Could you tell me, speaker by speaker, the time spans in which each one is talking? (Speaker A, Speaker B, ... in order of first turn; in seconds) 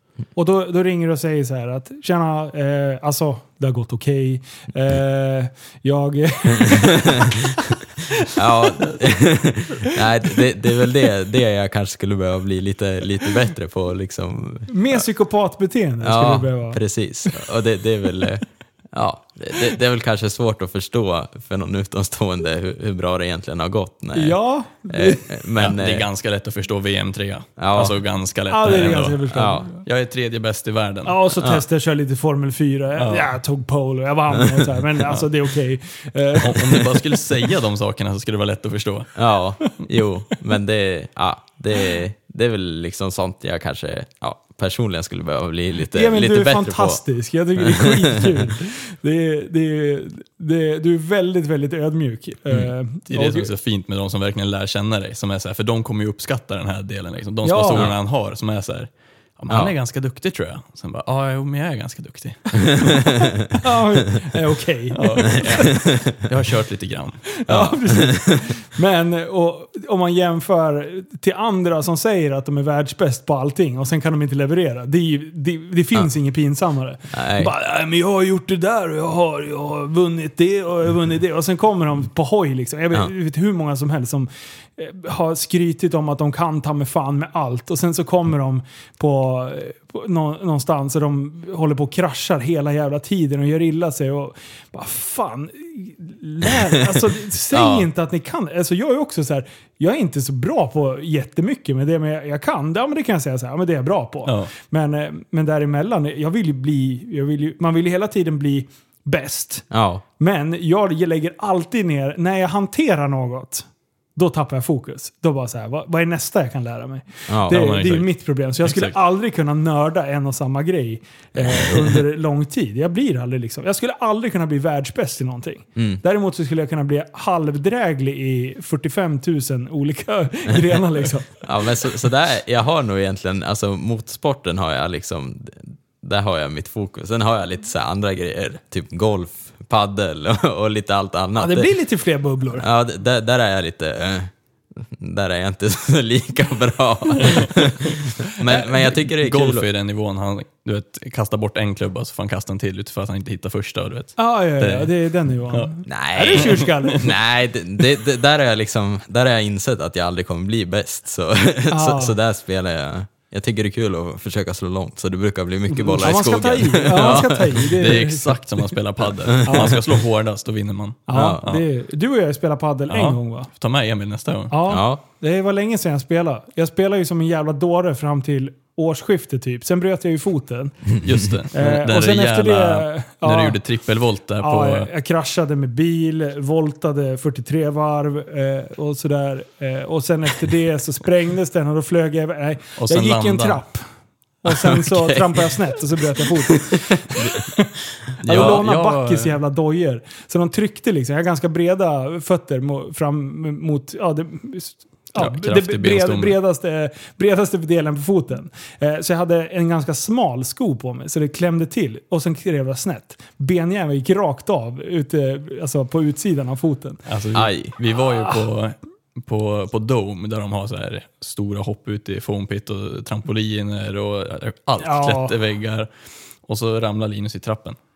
Speaker A: 0.4-9.0, 14.7-17.4, 24.1-25.3, 28.5-29.8, 31.1-37.2, 45.9-53.5, 57.4-57.9, 63.5-65.8, 67.3-109.7, 110.2-131.4, 141.4-142.7, 154.2-157.1, 161.7-162.2, 165.8-168.3, 169.4-169.8, 171.1-173.5, 174.5-181.0, 181.5-183.6, 184.4-193.8, 194.4-197.7, 198.2-217.0, 224.8-225.3
Speaker B: 6.6-7.3, 8.3-15.0, 16.0-24.4, 24.9-26.1, 27.6-28.0, 29.3-29.7, 39.1-47.0, 47.6-48.5, 59.5-59.7, 62.9-63.3, 65.7-66.2, 67.5-68.4, 77.1-77.5, 97.5-97.9, 109.7-110.0, 117.3-117.8, 125.8-126.0, 131.4-141.7, 142.6-149.7, 155.9-167.7, 169.3-169.8, 171.1-171.4, 174.7-175.0, 194.7-195.6, 197.2-197.4, 198.1-198.6, 217.3-217.8
Speaker C: 25.6-29.3, 29.9-31.2, 33.0-33.4, 36.4-39.1, 53.0-63.0, 64.9-67.2, 104.2-104.5, 117.5-118.1, 118.6-119.0, 147.1-147.9, 149.1-155.7, 156.3-157.0, 165.8-166.1, 167.1-171.6, 172.9-174.6, 181.0-184.9, 192.8-193.6, 198.2-199.3, 205.2-206.4, 217.1-225.9, 226.4-227.8